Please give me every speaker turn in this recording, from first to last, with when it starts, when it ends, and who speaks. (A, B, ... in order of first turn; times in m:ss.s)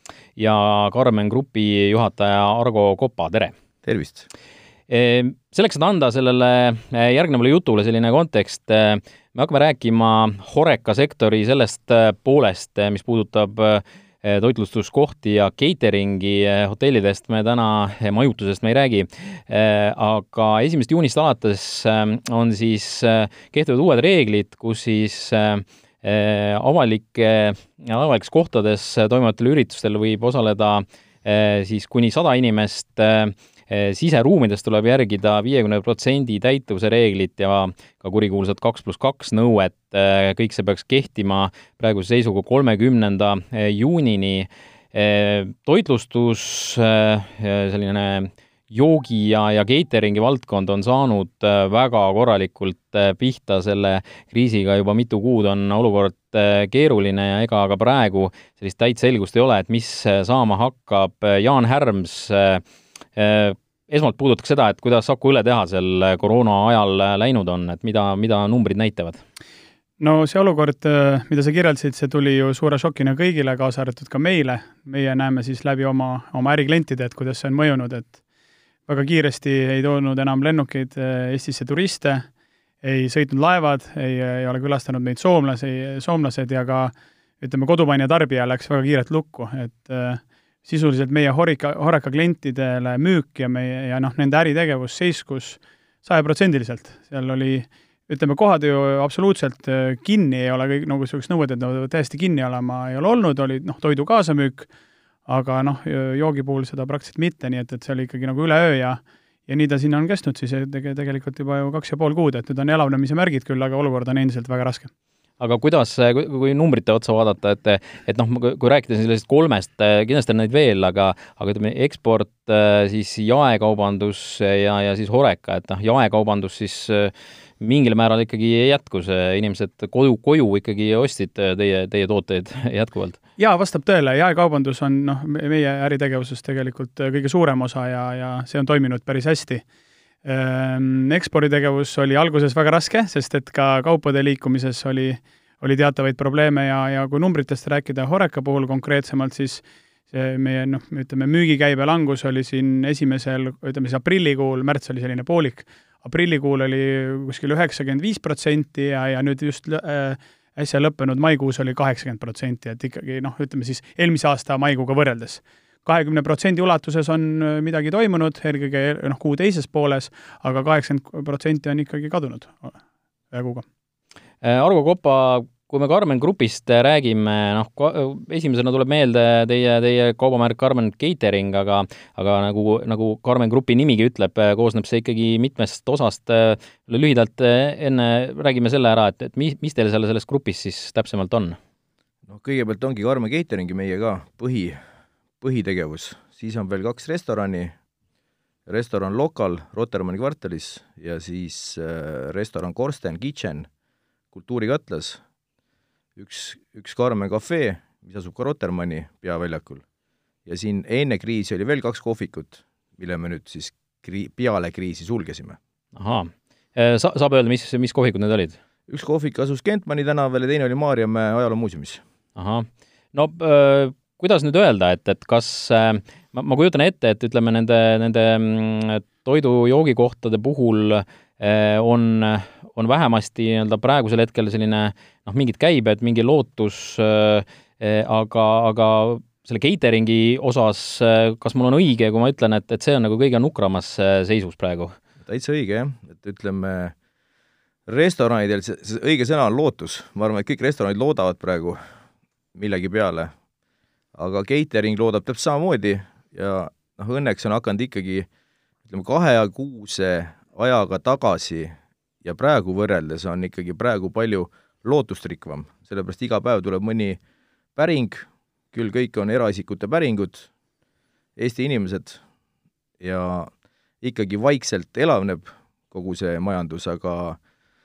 0:00.4-0:03.5 A
0:03.8-0:04.3 B
0:04.9-1:02.6 A
1:03.2-1:09.2 A
1:10.0-1:18.2 C
1:18.9-1:22.3 C
1:22.8-1:44.7 C
1:45.3-1:54.9 C
1:55.4-2:13.2 A
2:13.4-2:19.6 C
2:20.2-2:52.8 C
2:53.3-2:53.6 C
2:54.4-3:11.6 A
3:12.3-3:14.8 B
3:15.4-3:17.7 B
3:18.7-3:23.7 B
3:24.3-3:25.2 B
3:26.2-3:29.8 B
3:30.4-3:35.6 B
3:35.9-3:38.6 A
3:38.9-3:42.0 B
3:42.4-4:05.0 A
4:05.2-4:06.9 B
4:07.9-4:11.8 B
4:12.5-4:13.3 B
4:14.1-4:18.3 B
4:18.9-4:27.2 B
4:27.8-4:30.5 B
4:31.4-4:32.2 B
4:33.0-4:37.4 B